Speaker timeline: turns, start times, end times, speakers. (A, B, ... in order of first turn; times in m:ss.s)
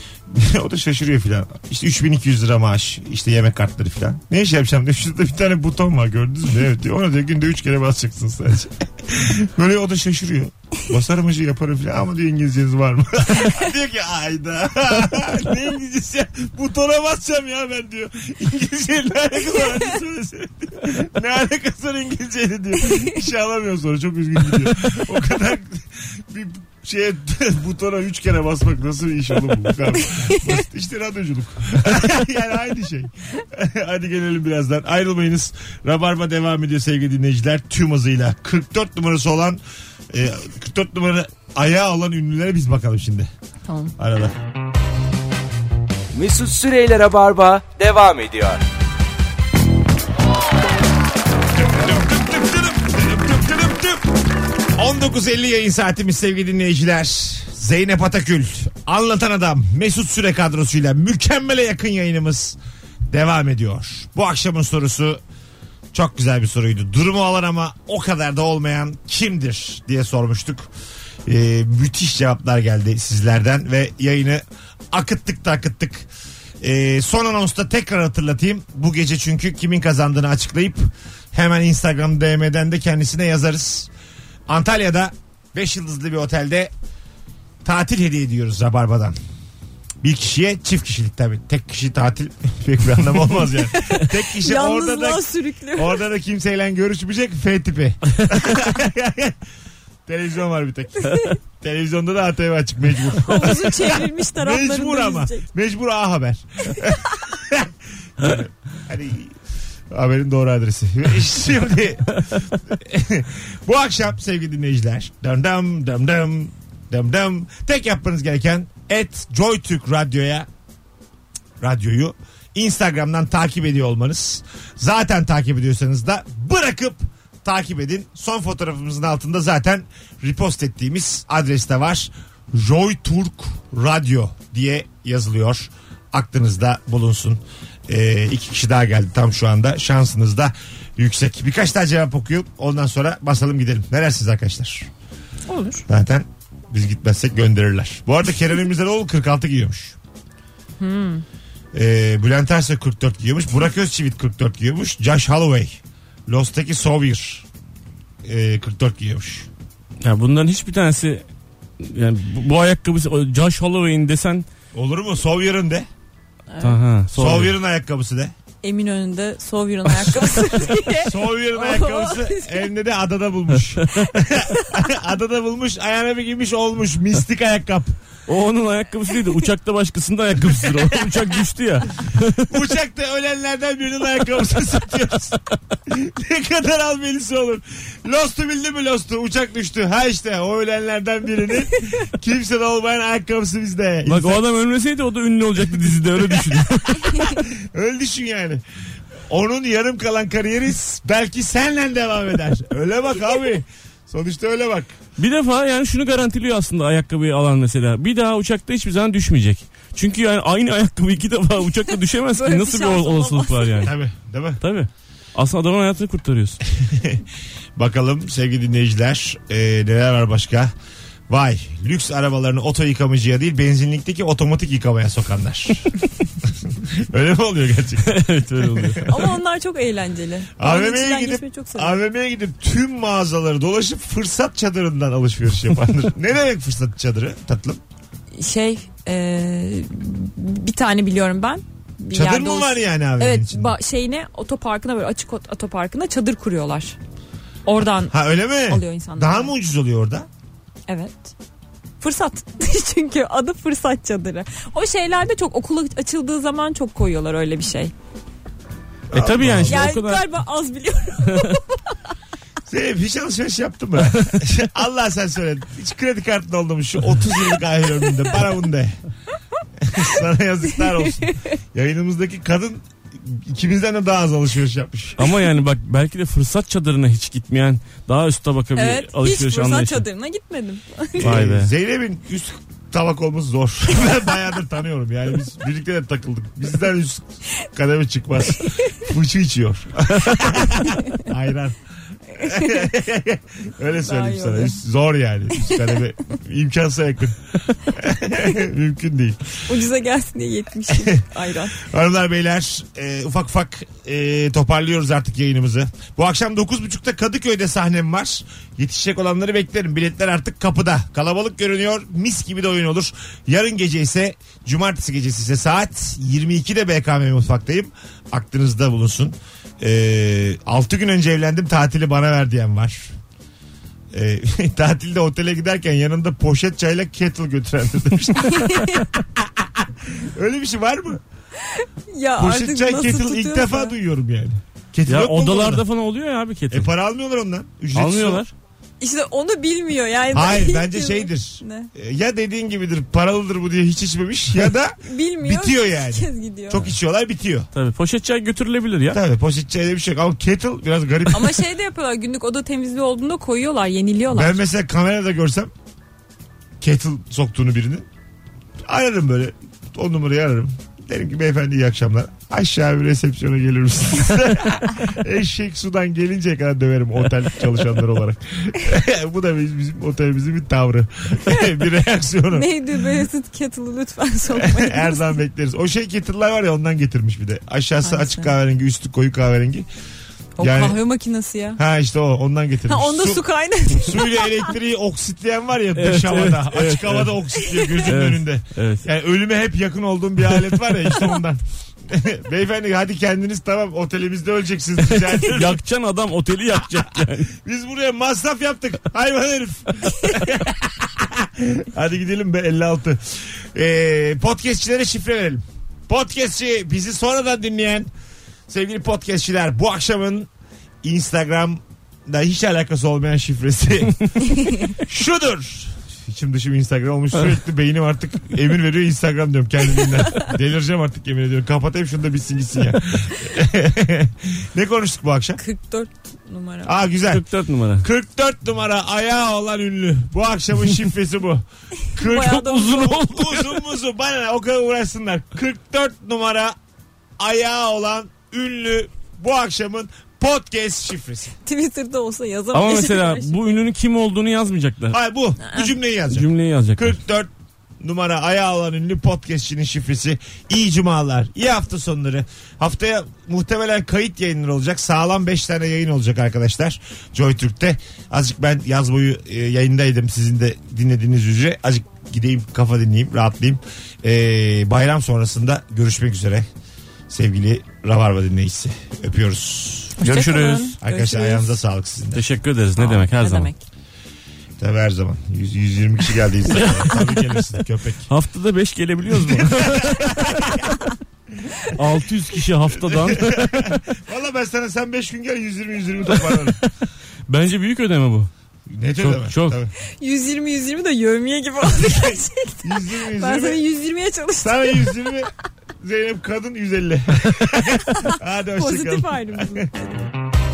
0:00.3-0:43.3 A
0:43.7-0:43.9 B
0:44.0-0:44.4 A
0:46.1-0:48.6 C
0:51.6-0:54.2 A
0:54.8-1:02.6 A
1:03.1-1:05.2 A
1:05.9-1:10.7 A
1:11.2-1:16.1 A
1:16.6-1:23.9 A
1:24.5-1:26.7 A
1:27.6-1:29.2 A
1:30.0-1:39.4 A
1:33.7-1:36.0 B
1:40.0-1:49.4 A
1:41.0-1:41.4 B
1:43.1-1:45.4 B
1:49.9-2:00.5 A
2:01.6-2:24.9 A
2:25.5-2:25.8 B
2:25.9-2:30.0 A
2:30.8-2:31.2 B
2:31.7-2:37.4 A
2:38.2-2:39.5 A
2:40.0-2:41.2 D
2:41.8-2:44.4 D
2:44.7-2:45.9 A
2:46.5-2:46.8 B
2:46.6-2:47.5 D
2:47.1-2:48.3 A
2:48.6-2:52.7 B
2:51.0-2:58.0 A
2:53.8-2:54.1 D
2:54.3-2:54.7 B
2:58.3-3:02.5 D
3:00.6-3:01.2 A
3:02.5-3:14.4 A
3:14.0-3:17.2 D
3:16.2-3:18.6 A
3:19.3-3:24.9 A
3:25.2-3:33.9 D
3:32.3-3:33.9 B
3:33.8-3:34.6 A
3:34.6-3:36.6 D
3:36.7-3:37.2 A
3:37.8-3:40.7 A
3:41.3-3:45.9 A
3:46.4-3:48.1 A
3:48.0-3:49.1 D
3:48.6-3:49.2 A
3:49.0-3:52.0 B
3:50.6-3:57.8 A
3:58.3-4:07.0 B
4:02.1-4:03.7 A
4:07.6-4:09.5 B
4:08.1-4:10.3 A
4:10.9-4:11.3 B
4:12.0-4:17.9 B
4:19.1-4:19.9 A
4:19.1-4:20.3 D
4:19.6-4:22.0 B
4:21.3-4:21.5 D
4:22.7-4:29.0 A
4:29.8-4:35.3 A
4:31.0-4:31.5 B
4:35.2-4:40.0 D
4:38.8-4:41.3 B
4:41.2-4:51.8 A
4:41.2-4:41.7 D
4:52.3-4:59.6 A
4:52.4-4:52.9 B
4:54.0-4:54.8 B
4:59.7-5:01.8 B
5:00.9-5:01.2 A
5:01.7-5:23.1 A
5:24.1-5:31.2 A
5:28.4-5:29.1 B
5:31.6-5:33.9 B
5:32.4-5:35.8 A
5:35.1-5:36.9 D
5:36.7-5:38.5 A
5:37.9-5:38.5 D
5:39.0-5:41.9 B
5:40.3-5:47.7 A
5:45.0-5:46.9 B
5:47.7-5:49.2 D
5:49.1-5:51.6 A
5:51.3-5:54.6 B
5:54.3-5:55.7 A
5:56.8-5:58.1 A
5:58.9-6:12.7 A
6:12.5-6:15.4 B
6:14.5-6:19.9 A
6:18.0-6:18.5 B
6:20.6-6:21.8 B
6:20.6-6:21.0 A
6:21.8-6:35.8 A
6:22.9-6:24.7 B
6:26.0-6:27.3 D
6:28.0-6:29.0 D
6:30.6-6:31.0 D
6:35.2-6:37.5 D
6:37.1-6:48.1 A
6:48.7-6:50.5 A
6:51.0-7:05.6 A
7:05.6-7:06.9 B
7:06.8-7:07.4 A
7:07.3-7:08.1 D
7:08.0-7:16.8 A
7:12.1-7:13.2 B
7:12.3-7:13.8 D
7:17.4-7:21.6 A
7:21.6-7:23.6 B
7:22.7-7:25.2 D
7:25.1-7:46.7 A
7:25.6-7:25.9 B
7:26.3-7:27.2 D
7:47.3-7:50.2 A
7:50.2-7:51.8 B
7:50.2-7:51.0 D
7:51.0-7:52.4 A
7:52.3-7:53.7 D
7:53.0-7:53.8 B
7:54.8-7:58.3 A
7:56.7-7:57.8 D
7:58.3-8:00.9 D
7:59.3-8:00.9 A
8:01.9-8:04.0 D
8:02.9-8:06.8 A
8:07.5-8:08.5 D
8:08.9-8:09.9 A
8:09.2-8:09.8 D
8:10.2-8:15.2 B
8:12.0-8:13.8 A
8:14.6-8:19.9 A
8:17.9-8:20.0 B